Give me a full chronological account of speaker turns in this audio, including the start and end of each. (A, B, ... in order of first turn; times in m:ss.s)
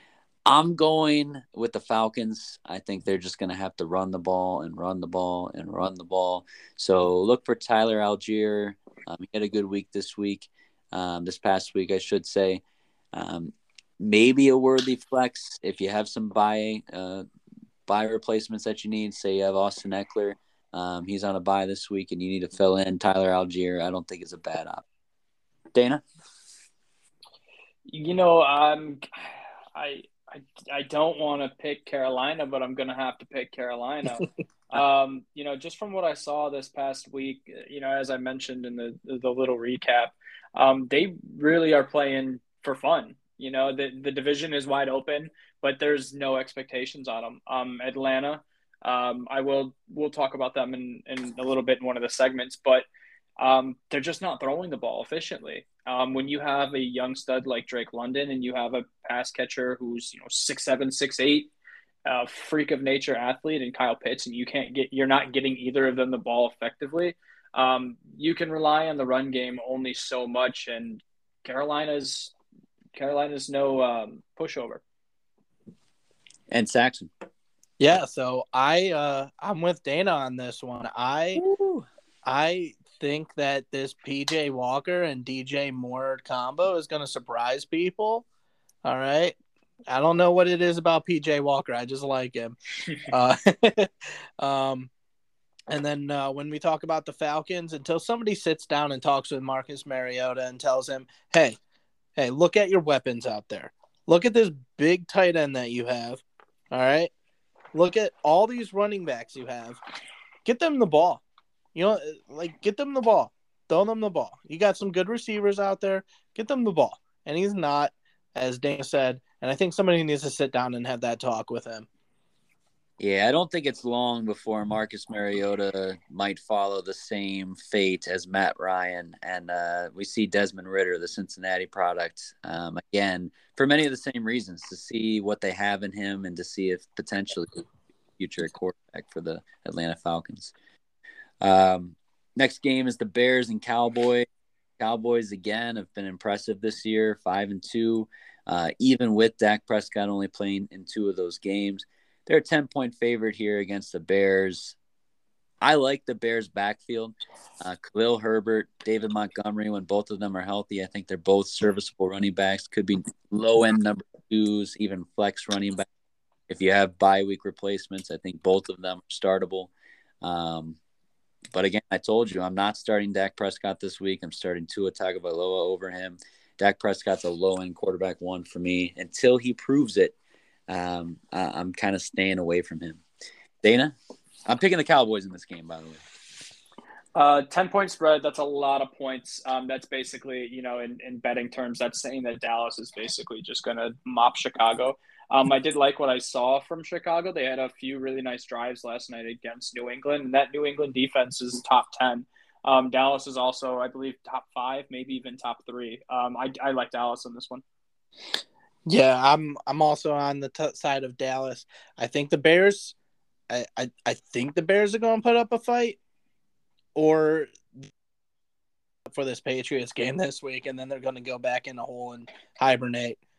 0:00.4-0:12.6 A
0:13.1-0:17.2 A
0:17.9-0:24.8 A
0:25.7-0:26.0 A
0:27.9-0:52.8 B
0:53.4-1:01.5 B
1:02.0-1:12.3 B
1:12.9-1:14.8 B
1:16.5-1:17.1 A
1:17.8-1:21.4 C
1:21.4-1:21.8 A
1:22.2-1:28.2 C
1:28.8-1:29.4 C
1:29.9-1:34.9 C
1:35.7-1:41.6 C
1:42.2-1:47.1 C
1:47.7-1:49.8 C
1:50.4-1:51.2 C
1:51.7-2:01.9 C
2:03.0-2:17.6 A
2:18.2-2:20.5 A
2:21.4-2:24.3 A
2:24.8-2:34.8 A
2:35.6-2:45.8 A
2:46.5-2:49.7 A
2:50.2-2:50.8 A
2:51.5-3:00.1 A
3:00.7-3:03.0 A
3:03.6-3:03.9 A
3:04.4-3:06.0 A
3:07.1-3:27.6 B
3:28.8-3:32.9 C
3:33.5-3:36.0 C
3:36.9-3:37.9 C
3:39.1-3:43.2 C